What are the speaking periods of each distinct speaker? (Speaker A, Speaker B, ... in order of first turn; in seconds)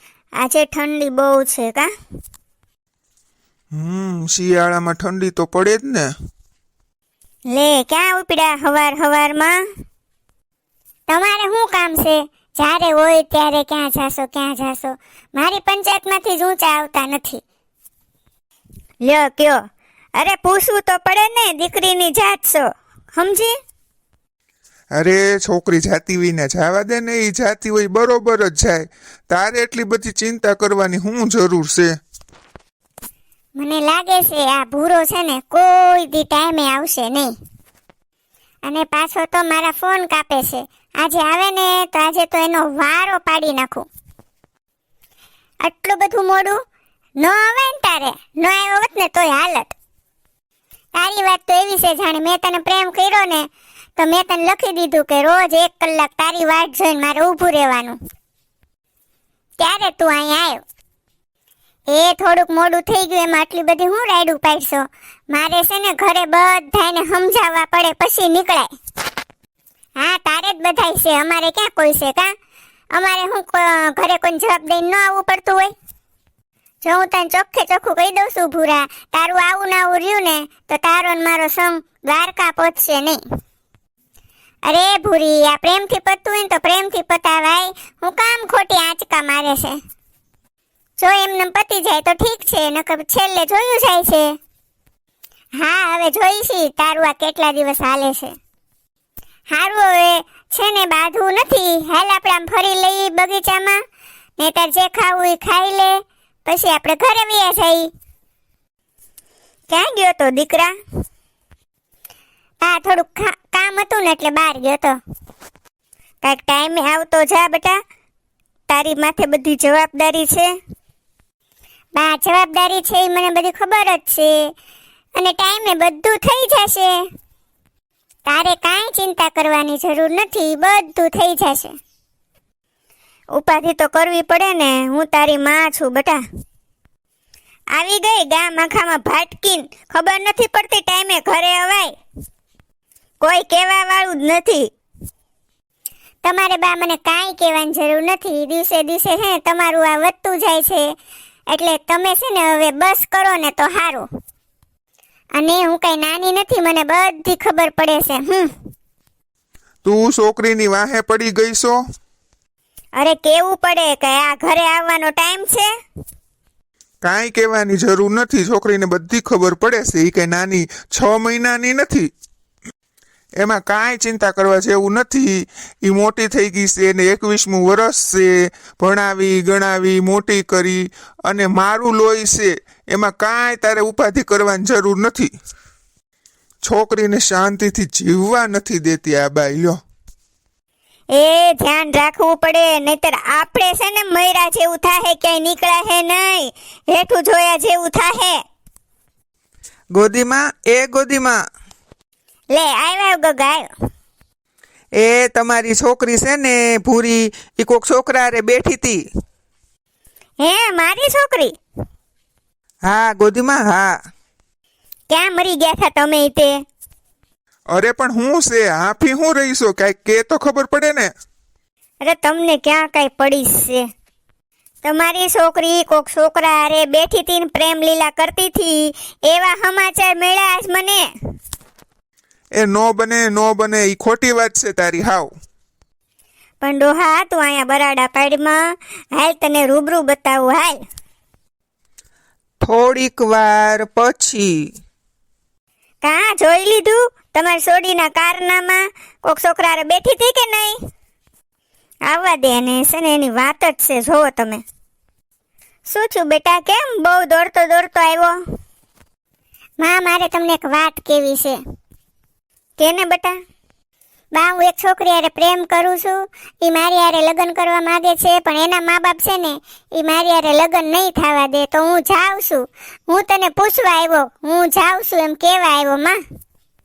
Speaker A: 0.4-1.9, 7.5-9.6, 11.1-17.4, 19.0-19.6, 20.2-23.6, 33.6-37.3, 38.6-43.9, 45.6-46.6, 47.2-49.8, 51.0-58.0, 59.6-60.6, 61.9-68.7, 70.0-72.3, 73.0-75.7, 76.8-83.2, 84.7-89.8, 91.0-94.3, 95.6-98.3, 99.5-103.8, 104.4-107.9, 109.7-110.8, 112.6-115.0, 116.2-117.8, 118.7-120.5, 122.0-124.3, 125.2-127.0, 128.3-131.8, 133.4-136.2, 137.8-141.9, 143.2-144.7, 146.2-150.9, 151.5-154.1, 155.4-158.5, 162.9-165.7, 191.2-198.4, 202.5-203.7, 210.4-211.5, 215.1-216.6, 222.1-223.9, 224.8-231.1, 236.6-240.8, 246.0-250.8, 252.1-254.6, 255.9-258.4, 259.8-261.6, 262.8-263.4, 264.4-276.2
Speaker B: 3.8-6.1, 25.0-31.9, 159.8-161.8, 167.0-172.1, 173.4-185.3, 186.6-189.8, 217.7-221.1, 232.6-235.3
Speaker C: 199.9-201.4, 205.0-209.0, 212.8-214.0, 242.6-244.5